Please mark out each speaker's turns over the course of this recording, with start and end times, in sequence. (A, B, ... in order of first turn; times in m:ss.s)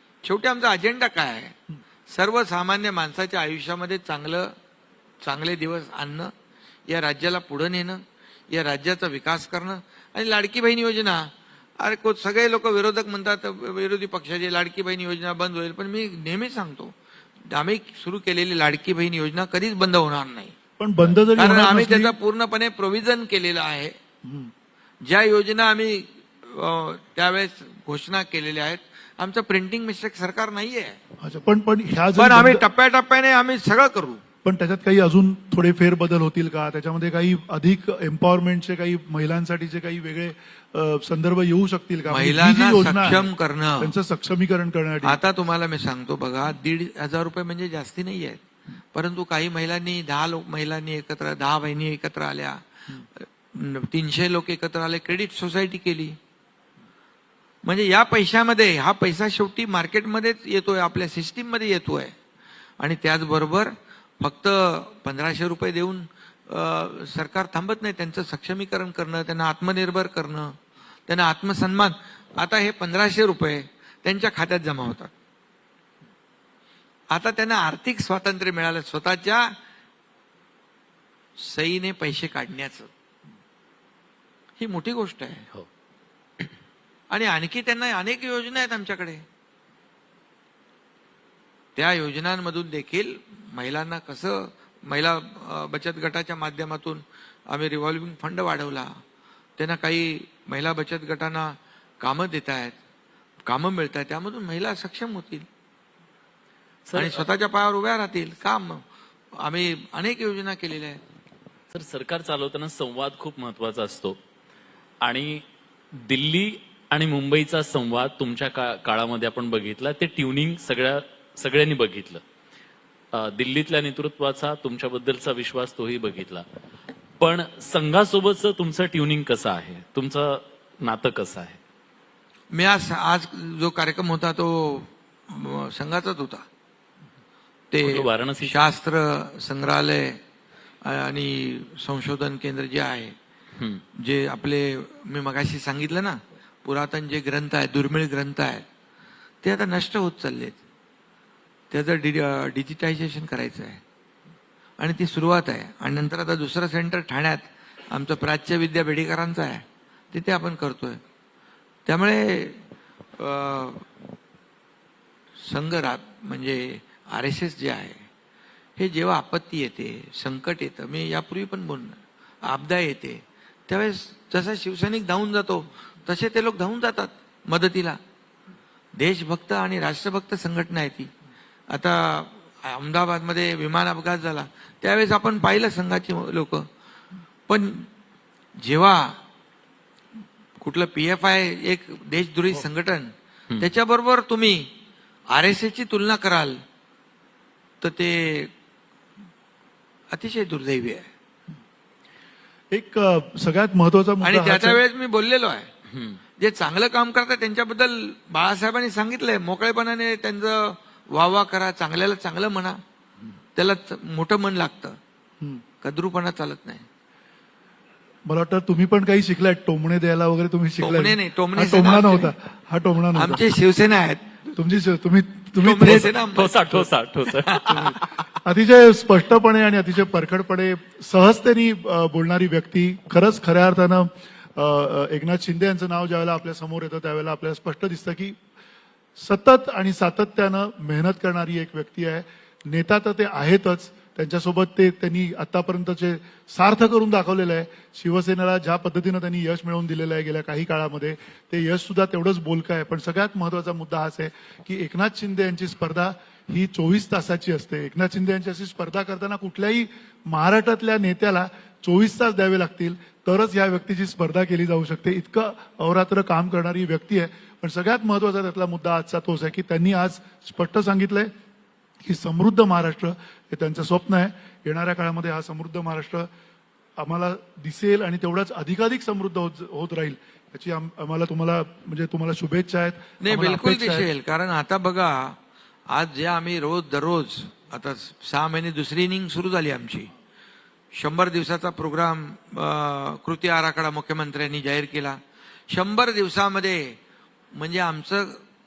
0:00.2-0:01.6 A
0:02.1-0:04.5 A
0:05.2-0:06.3 A
0:06.9-0:16.9 A
0:17.5-0:20.5 A
0:20.8-0:22.1 B
0:21.3-0:23.9 A
0:24.2-0:24.5 B
0:25.0-0:31.0 A
0:31.2-0:32.6 B
0:32.2-0:34.2 A
0:34.4-0:45.2 B
0:42.1-0:43.9 A
0:45.0-0:48.4 A
0:48.9-0:56.2 A
0:57.6-1:02.1 A
1:02.8-1:10.6 A
1:11.1-1:15.1 A
1:17.1-1:19.5 A
1:21.4-1:22.9 A
1:24.6-1:25.5 A
1:27.1-1:29.2 A
1:31.8-1:38.9 A
1:39.6-1:42.8 A
1:43.4-1:45.5 A
1:46.8-1:47.2 C
1:46.9-1:48.8 A
1:49.4-1:51.0 A
1:51.7-1:54.2 C
1:55.0-2:02.2 C
2:03.1-2:06.4 C
2:07.2-2:11.6 C
2:12.5-2:16.4 A
2:17.7-2:20.2 A
2:17.8-2:18.7 C
2:20.8-2:23.1 A
2:24.0-2:28.6 A
2:29.4-2:30.6 A
2:31.7-2:33.8 A
2:34.8-2:41.0 A
2:41.8-2:42.6 A
2:43.2-2:43.8 A
2:45.4-2:48.0 A
2:48.8-2:58.0 A
2:59.0-3:01.1 A
3:01.7-3:06.7 A
3:07.5-3:07.9 A
3:08.6-3:09.2 A
3:10.6-3:14.7 A
3:15.3-3:16.6 A
3:17.8-3:18.5 A
3:20.1-3:21.0 A
3:22.7-3:24.8 B
3:24.2-3:25.7 A
3:25.9-3:26.2 C
3:26.4-3:32.8 A
3:33.6-3:35.0 A
3:35.8-3:36.8 A
3:38.2-3:43.4 B
3:40.8-3:42.3 A
3:43.1-3:44.4 A
3:44.5-3:46.1 B
3:45.6-3:47.8 A
3:46.3-3:48.2 C
3:47.6-3:58.4 B
3:59.2-4:31.3 B
4:32.0-4:36.3 B
4:37.0-4:44.1 B
4:43.2-4:45.4 A
4:45.9-4:50.1 A
4:50.9-4:55.2 A
4:55.7-4:57.0 A
4:57.5-4:58.4 A